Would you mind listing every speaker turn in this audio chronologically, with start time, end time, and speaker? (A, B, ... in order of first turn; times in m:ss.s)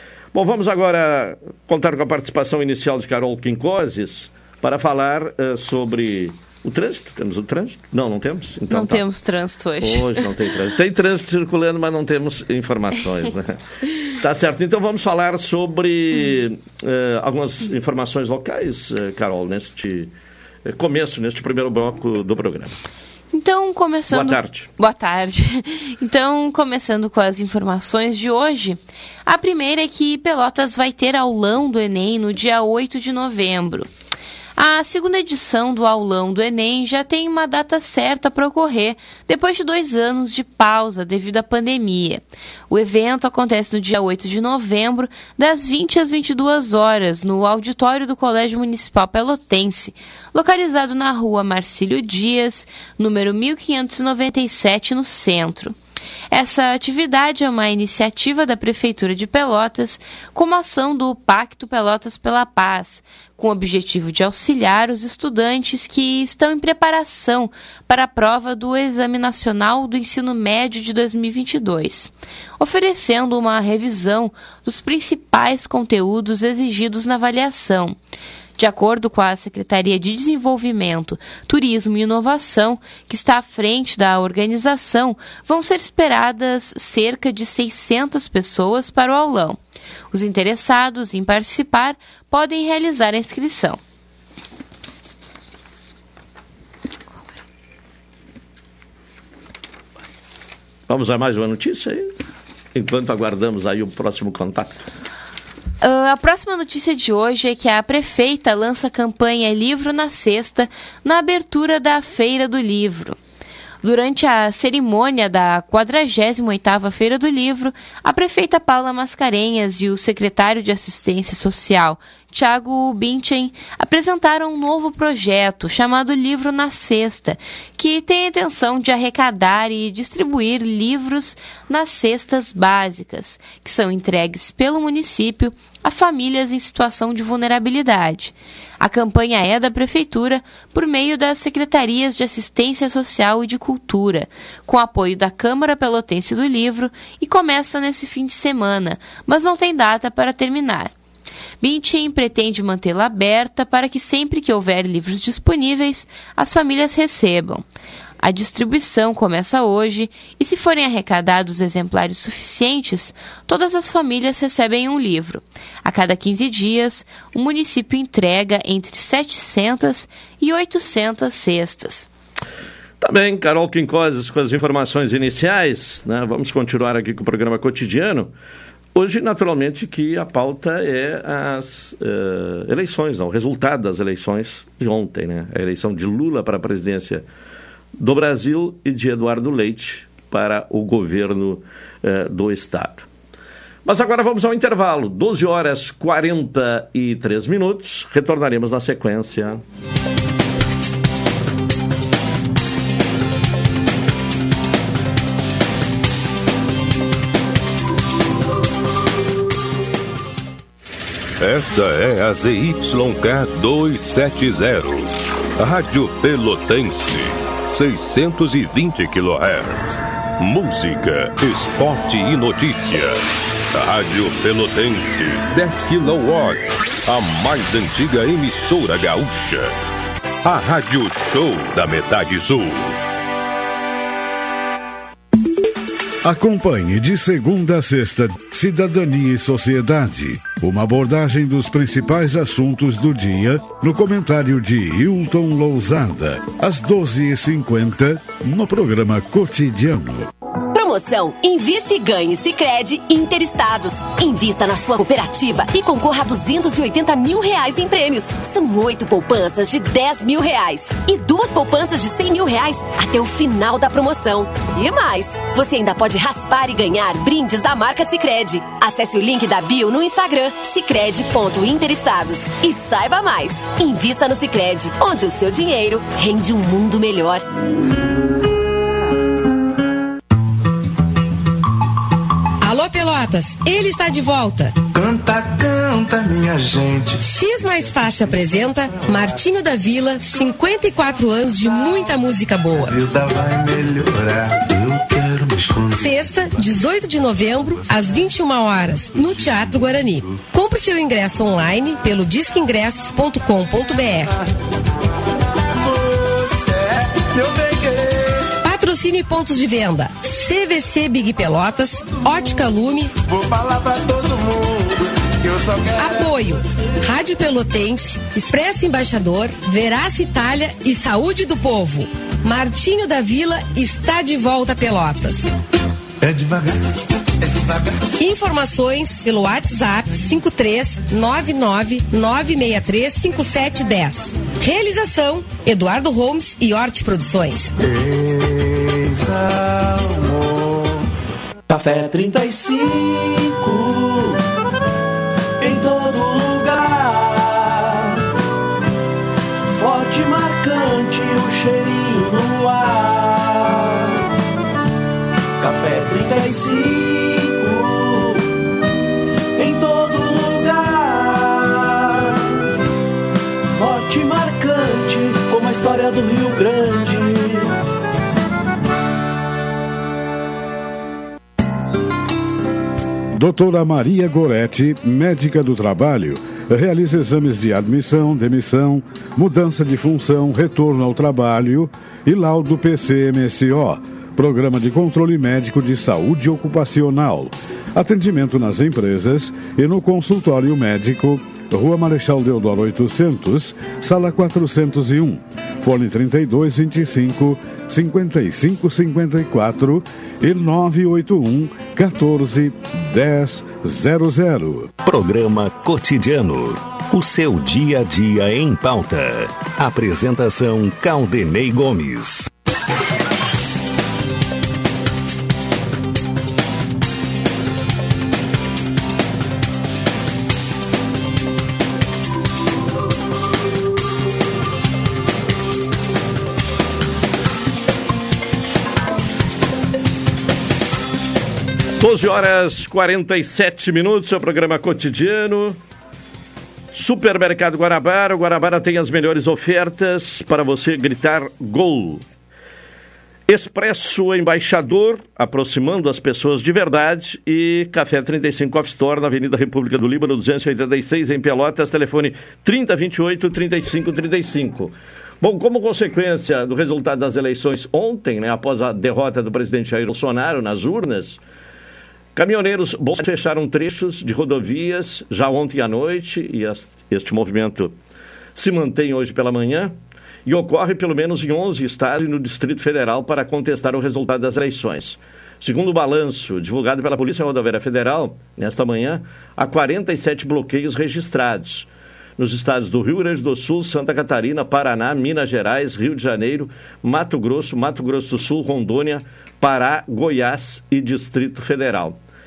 0:00.3-0:09.1 A
0:08.7-0:10.3 B
0:09.8-0:13.6 A
0:14.2-0:20.1 A
0:20.6-0:22.7 A
0:23.3-0:33.9 B
0:24.1-0:24.7 A
0:34.6-0:55.8 B
0:56.3-1:18.0 B
1:18.6-1:29.6 B
1:30.1-1:33.8 B
1:40.9-1:42.1 A
1:42.7-1:44.9 A
1:45.8-1:53.2 B
1:53.8-2:30.9 B
2:31.6-2:37.6 B
2:38.2-2:52.1 B
2:53.0-2:58.3 A
2:59.0-3:07.2 A
3:08.0-3:13.1 A
3:13.8-3:19.6 A
3:31.4-3:49.8 C
3:50.4-3:53.0 C
3:56.2-4:10.3 D
4:10.7-4:37.4 E
4:42.6-4:44.8 F
4:44.9-4:47.2 G
4:47.2-4:53.0 F
4:52.8-4:56.1 G
4:56.0-5:04.3 F
5:05.8-5:08.4 G
5:08.6-5:13.2 F
5:13.2-5:16.5 G
5:16.0-5:25.5 F
5:26.2-5:28.0 G
5:28.2-5:37.7 F
5:37.8-5:41.0 G
5:41.7-5:44.4 H
5:45.6-5:48.2 H
5:49.7-5:54.3 H
5:55.6-5:58.5 H
5:59.6-6:02.7 H
6:03.7-6:07.8 H
6:13.4-6:45.0 D
6:45.0-6:52.5 I
7:12.0-7:15.8 A
7:16.9-7:22.2 A
7:23.5-7:41.4 A
7:42.4-7:47.9 A
7:48.6-7:49.9 A
7:50.5-8:12.2 A